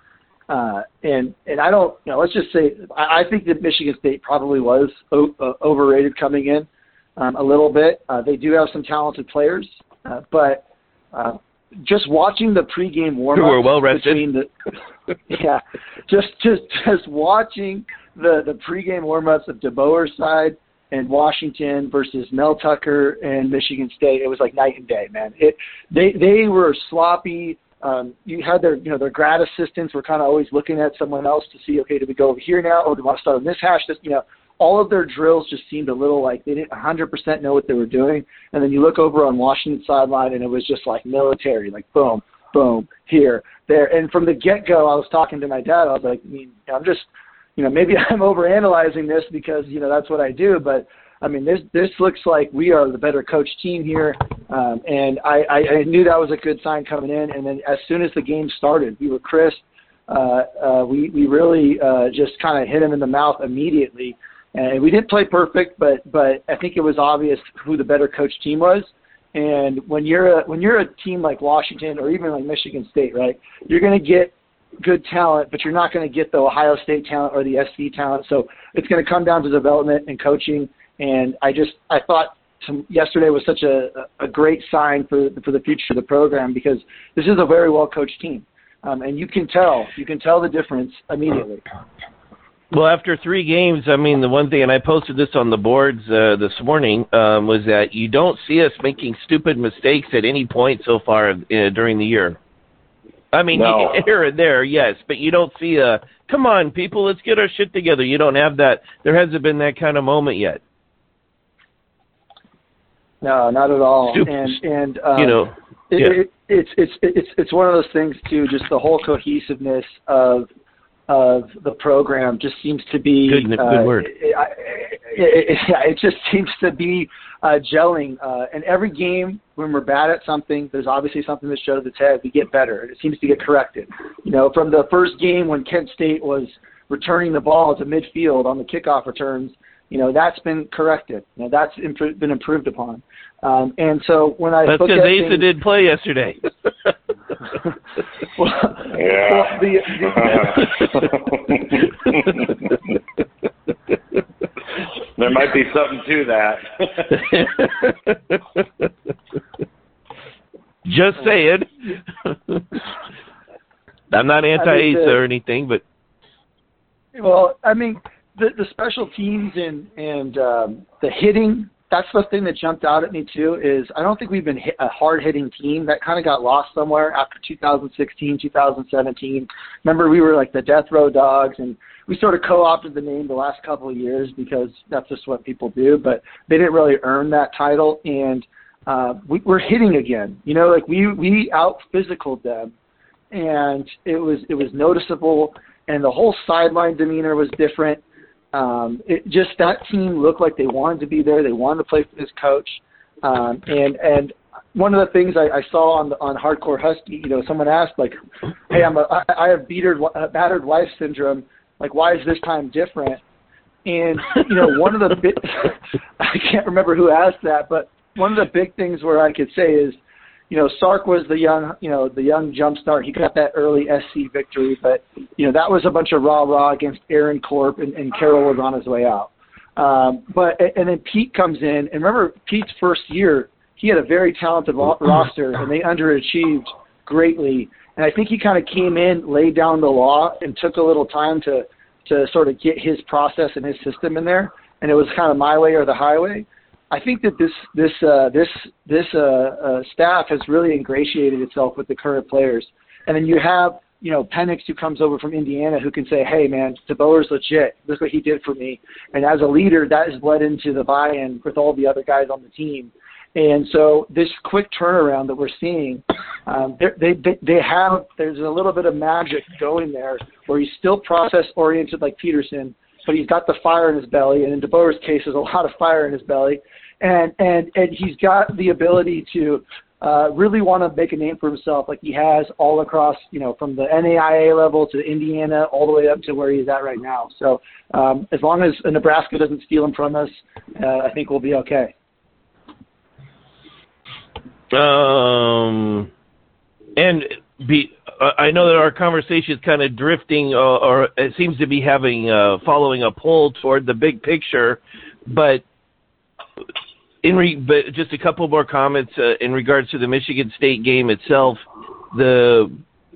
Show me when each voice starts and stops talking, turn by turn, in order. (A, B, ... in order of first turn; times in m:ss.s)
0:00.5-0:14.5 A
0:13.4-0:14.2 B
0:15.3-1:31.6 A
1:32.7-1:42.4 B
1:43.3-1:50.6 B
1:43.5-1:44.0 C
1:53.2-2:00.5 A
1:54.1-1:54.6 B
1:55.2-1:56.2 B
2:01.1-2:25.5 A
2:03.3-2:04.1 B
2:24.7-2:26.4 B
2:28.4-2:30.7 A
2:28.9-2:32.5 C
2:35.2-2:37.2 C
2:37.2-2:38.3 B
2:40.8-2:41.7 B
2:42.2-2:42.6 B
2:44.1-2:45.8 B
2:44.6-2:45.2 A
2:47.2-3:12.7 A
3:13.3-3:33.2 A
3:33.8-3:40.0 A
3:40.5-4:51.9 A
4:54.7-4:56.1 B
4:57.0-5:05.6 B
5:07.2-5:12.8 B